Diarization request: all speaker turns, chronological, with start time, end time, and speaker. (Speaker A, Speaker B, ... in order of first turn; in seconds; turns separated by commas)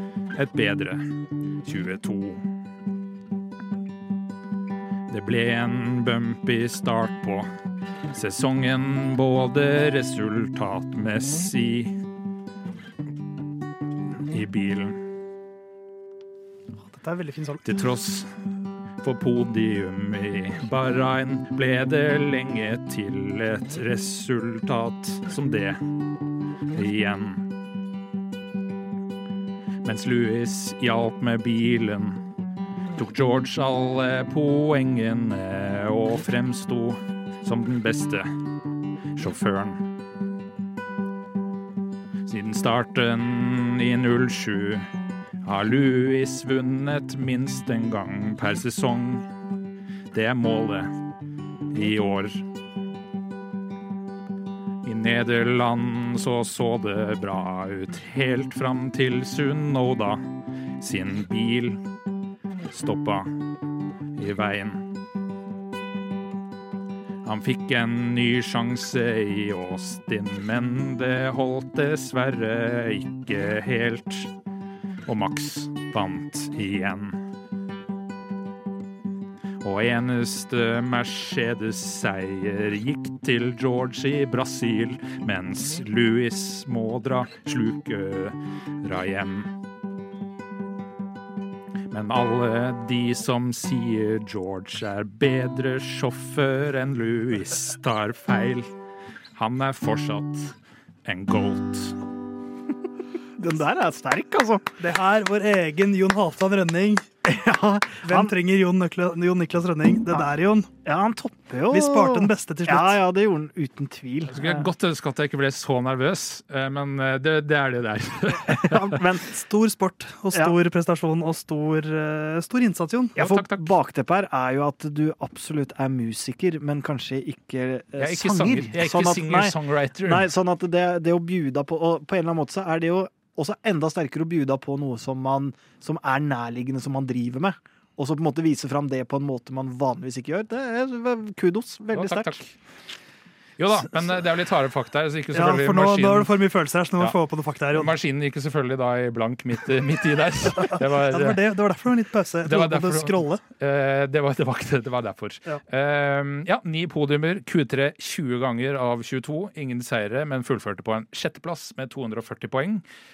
Speaker A: 0.3-1.0, Speaker A: 1.6-2.4, Speaker A: 5.1-7.5, Speaker A: 8.1-12.0, Speaker A: 14.2-15.0, Speaker B: 16.8-17.7, Speaker A: 17.6-18.3, Speaker A: 19.0-25.8, Speaker A: 26.7-27.5, Speaker A: 29.8-32.2, Speaker A: 33.0-38.3, Speaker A: 39.1-39.9, Speaker A: 42.2-44.9, Speaker A: 45.4-49.3, Speaker A: 50.1-50.9, Speaker A: 51.7-52.5, Speaker A: 54.8-60.2, Speaker A: 60.8-61.8, Speaker A: 62.7-63.4, Speaker A: 64.2-64.9, Speaker A: 67.2-74.3, Speaker A: 75.0-77.2, Speaker A: 79.6-89.5, Speaker A: 91.9-98.7, Speaker A: 99.3-102.0, Speaker C: 103.4-104.8, Speaker B: 104.8-107.1, Speaker C: 107.2-108.3, Speaker B: 108.0-110.7, Speaker C: 110.8-114.7, Speaker B: 111.7-113.0, Speaker A: 114.3-119.0, Speaker C: 118.5-119.3, Speaker B: 119.2-123.2, Speaker A: 123.2-123.8, Speaker C: 123.2-142.4, Speaker A: 128.0-130.3, Speaker A: 141.9-142.6, Speaker A: 143.6-146.3, Speaker B: 145.3-147.9, Speaker A: 147.7-151.4, Speaker B: 150.5-153.4, Speaker A: 152.4-162.8